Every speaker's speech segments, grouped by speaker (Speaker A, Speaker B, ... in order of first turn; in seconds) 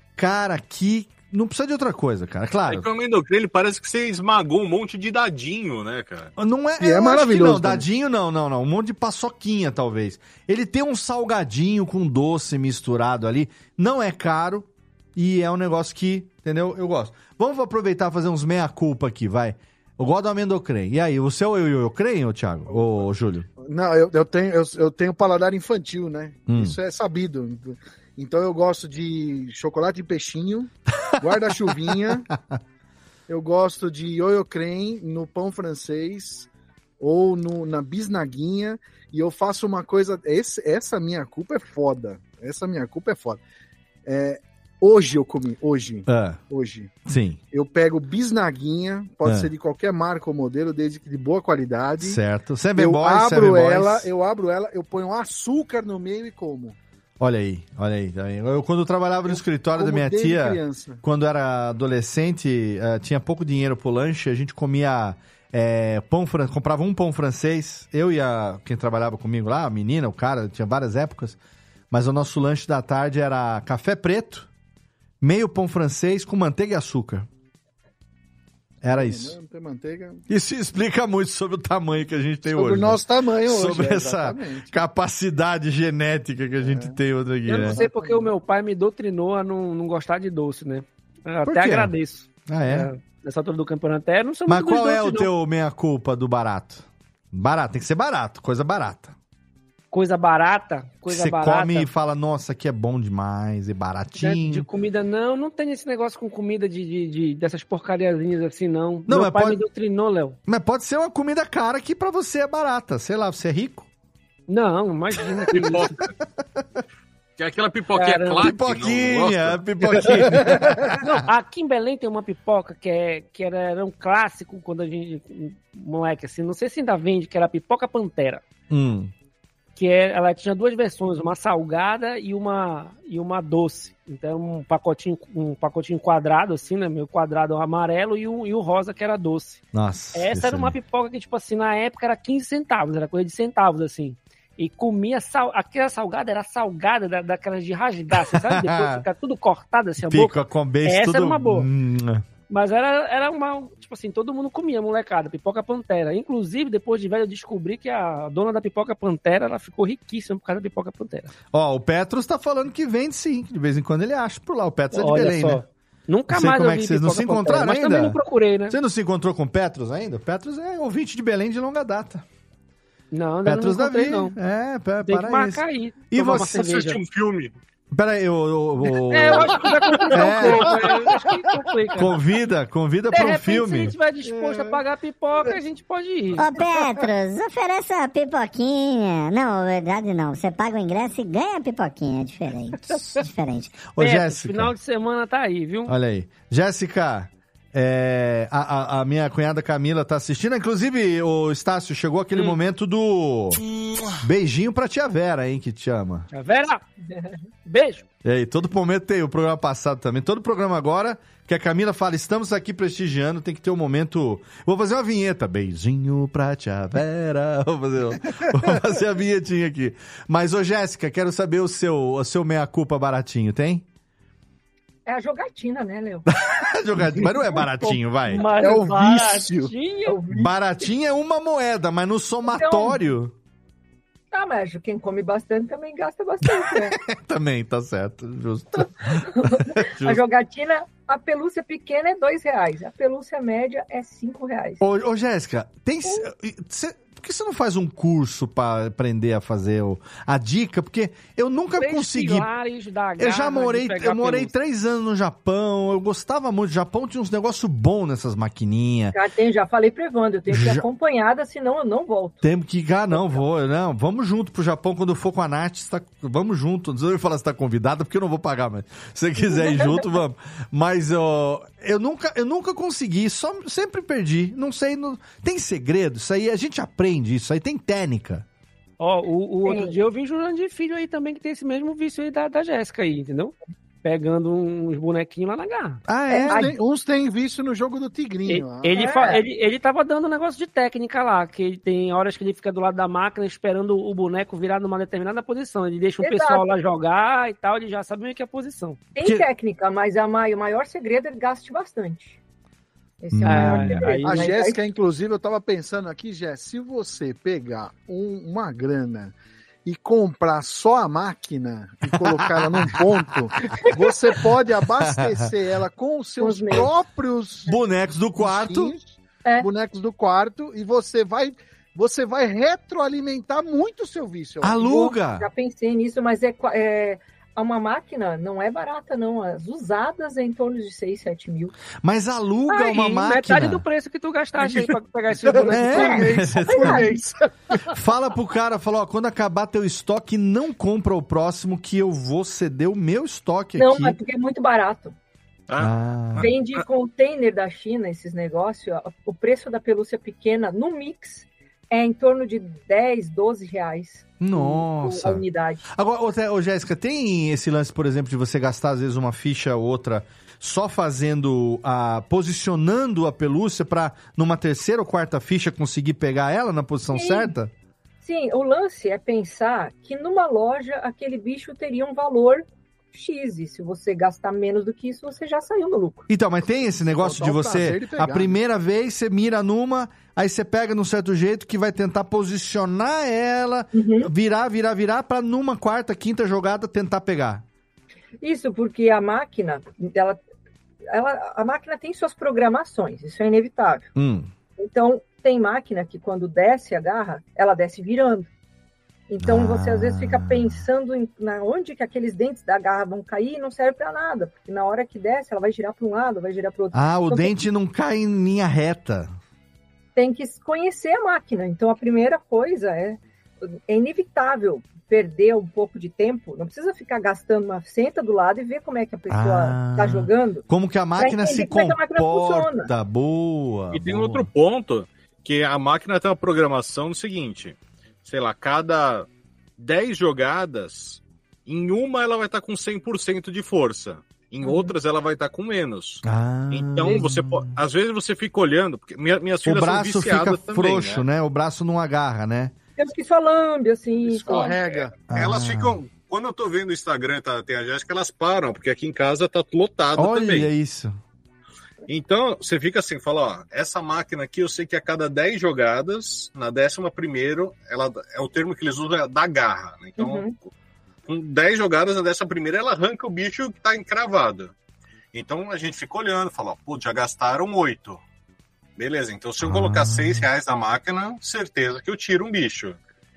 Speaker A: 0.2-2.9, 6.4-23.5, 26.5-26.8, 31.1-32.6, 46.1-46.4, 47.0-47.4, 49.2-49.5, 52.0-54.1, 57.2-71.4, 71.9-74.5, 75.2-77.3, 78.8-79.3, 80.3-87.8, 91.4-91.9, 92.5-92.9, 94.5-99.1, 101.1-104.7, 109.1-109.6, 110.5-113.9, 118.4-121.1, 128.7-129.1, 139.7-140.7, 148.1-149.1, 150.0-152.2, 161.5-165.6, 166.3-172.2, 173.4-176.5, 177.9-180.9, 181.9-183.9, 193.7-194.7, 195.9-203.6, 204.2-206.3, 208.2-223.8, 226.3-228.4, 230.3-233.3, 236.5-240.2, 244.8-252.5, 253.2-259.1, 260.5-260.8, 262.4-278.4, 286.1-286.7, 299.2-299.5, 303.3-304.1, 312.1-313.8, 315.0-315.5, 317.6-318.9, 324.6-325.5, 332.0-333.8, 335.7-337.1, 337.9-344.2, 345.8-346.5, 354.4-367.7, 376.3-387.6, 394.1-394.5, 399.4-400.8, 406.9-409.3, 419.3-424.5, 436.2-437.7, 439.6-442.7, 445.3-446.0, 450.1-451.1, 469.6-470.4
Speaker B: 2.7-6.3, 115.5-116.1, 117.4-120.0, 176.2-177.5, 345.7-346.8, 423.9-441.2, 444.5-450.7, 452.1-460.7, 461.3-464.7, 465.3-468.2, 469.0-473.0
Speaker C: 6.8-7.8, 22.7-23.0, 23.6-32.3, 33.3-36.5, 37.0-43.4, 44.0-47.0, 47.5-52.2, 52.8-56.8, 59.3-61.0, 78.9-80.2, 82.5-84.7, 86.6-87.0, 87.5-88.3, 180.2-181.4, 184.3-184.8, 228.4-229.7, 286.5-289.1, 304.2-317.7, 318.4-324.8, 334.6-334.9, 335.4-337.9, 377.0-378.5, 444.3-445.1
Speaker D: 87.5-95.3, 99.9-101.9, 104.1-110.4, 114.5-115.9, 118.0-118.4, 120.9-128.4, 129.8-139.6, 140.1-151.7, 152.5-161.3, 164.9-168.8, 173.1-174.3, 175.1-177.0, 179.1-182.2, 183.1-186.5, 194.0-195.9, 202.3-202.6, 206.3-206.8, 207.7-208.0, 228.2-230.2, 251.8-254.5, 279.0-286.0, 288.5-299.0, 303.4-304.5, 332.7-336.2
Speaker E: 186.4-193.8
Speaker F: 207.1-207.4, 225.1-226.3, 230.1-230.5, 232.5-233.0, 234.3-237.0, 238.8-244.8, 259.1-262.4, 263.1-263.4, 269.4-270.2, 279.6-279.9, 286.3-286.8, 288.9-289.4, 296.2-296.6, 299.1-302.4, 303.2-304.8, 316.4-316.9, 324.8-331.8, 335.7-337.2, 343.8-345.1, 346.4-355.8, 367.1-367.5, 368.2-376.3, 383.9-384.3, 388.4-390.4, 391.1-394.1, 394.8-398.5, 399.3-407.5, 410.1-420.6, 421.2-422.9, 434.6-434.9, 443.0-444.8, 460.2-460.5